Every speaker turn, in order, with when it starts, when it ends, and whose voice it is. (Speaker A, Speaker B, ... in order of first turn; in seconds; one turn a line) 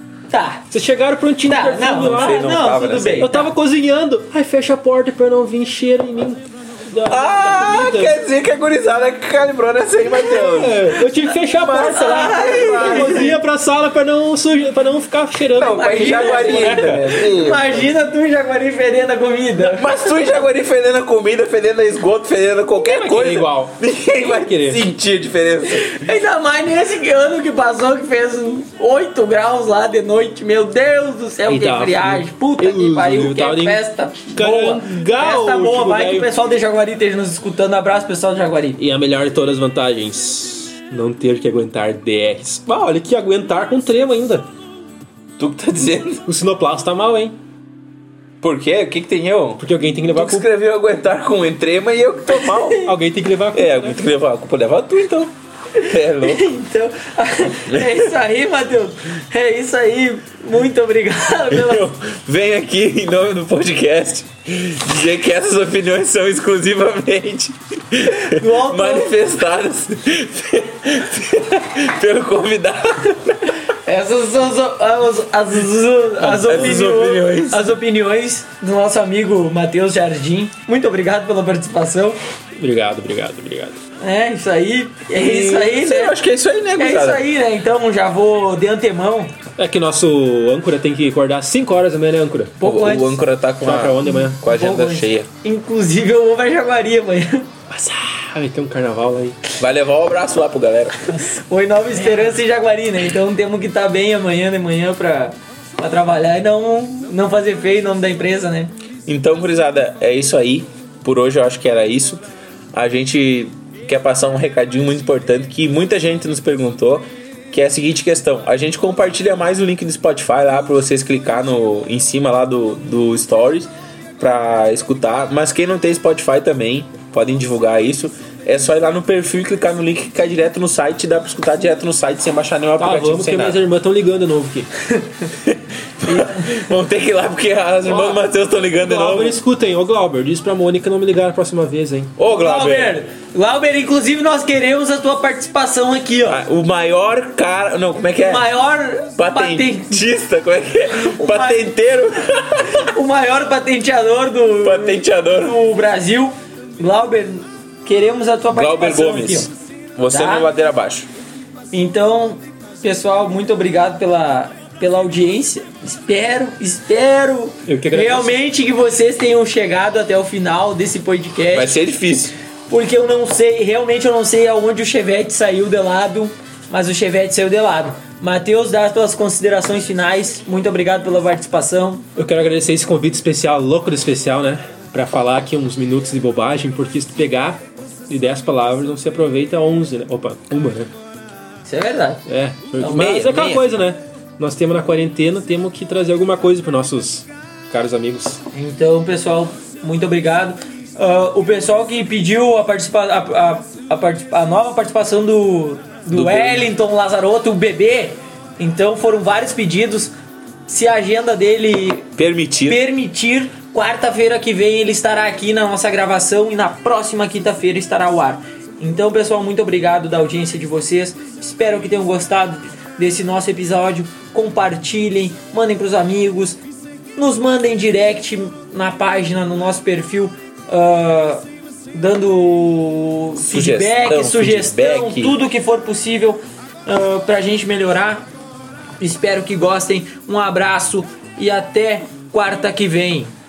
Speaker A: 0.3-0.6
Speaker B: 0.7-2.5
Speaker A: 1.4-3.5
Speaker C: 1.9-3.3
Speaker B: 3.2-8.2
Speaker C: 7.1-10.9
Speaker B: 10.2-17.1
Speaker C: 11.5-13.4
Speaker A: 11.8-13.3
Speaker C: 15.5-17.9
Speaker A: 15.7-19.9
Speaker C: 19.6-25.9
Speaker B: 22.8-24.8
Speaker A: 25.8-38.8
Speaker B: 31.5-36.3
Speaker B: 38.8-44.5
Speaker C: 45.4-46.2
Speaker B: 46.2-47.4
Speaker C: 48.4-52.9
Speaker B: 49.6-50.4
Speaker B: 52.8-54.0
Speaker C: 53.5-55.3
Speaker A: 55.8-61.9
Speaker C: 55.9-56.5
Speaker C: 57.6-58.1
Speaker C: 61.5-73.6
Speaker A: 68.1-69.1
Speaker A: 73.8-82.2
Speaker C: 76.2-77.6
Speaker B: 82.6-83.8
Speaker A: 84.0-86.2
Speaker C: 85.1-87.2
Speaker A: 86.8-89.3
Speaker B: 89.6-92.6
Speaker A: 92.6-93.2
Speaker C: 92.6-95.3
Speaker B: 93.6-94.4
Speaker A: 94.1-97.5
Speaker B: 97.7-99.4
Speaker C: 99.6-101.1
Speaker A: 101.1-108.7
Speaker C: 109.0-133.6
Speaker B: 132.8-134.7
Speaker C: 135.4-139.4
Speaker A: 136.1-136.6
Speaker A: 137.9-138.2
Speaker B: 138.8-142.2
Speaker C: 142.2-143.0
Speaker A: 142.3-146.4
Speaker C: 146.2-148.5
Speaker A: 148.2-150.0
Speaker C: 149.2-152.9
Speaker A: 150.9-151.7
Speaker A: 152.6-159.5
Speaker C: 154.6-155.6
Speaker C: 158.5-161.1
Speaker A: 160.1-160.5
Speaker A: 161.7-171.8
Speaker B: 167.7-168.3
Speaker C: 171.5-172.3
Speaker A: 172.7-182.0
Speaker B: 182.2-190.9
Speaker A: 191.6-192.2
Speaker B: 192.3-198.4
Speaker C: 192.8-193.7
Speaker A: 198.5-210.1
Speaker C: 206.1-206.7
Speaker A: 210.7-212.1
Speaker C: 212.2-212.8
Speaker A: 212.7-226.6
Speaker A: 227.2-238.3
Speaker C: 233.4-235.4
Speaker A: 239.0-243.3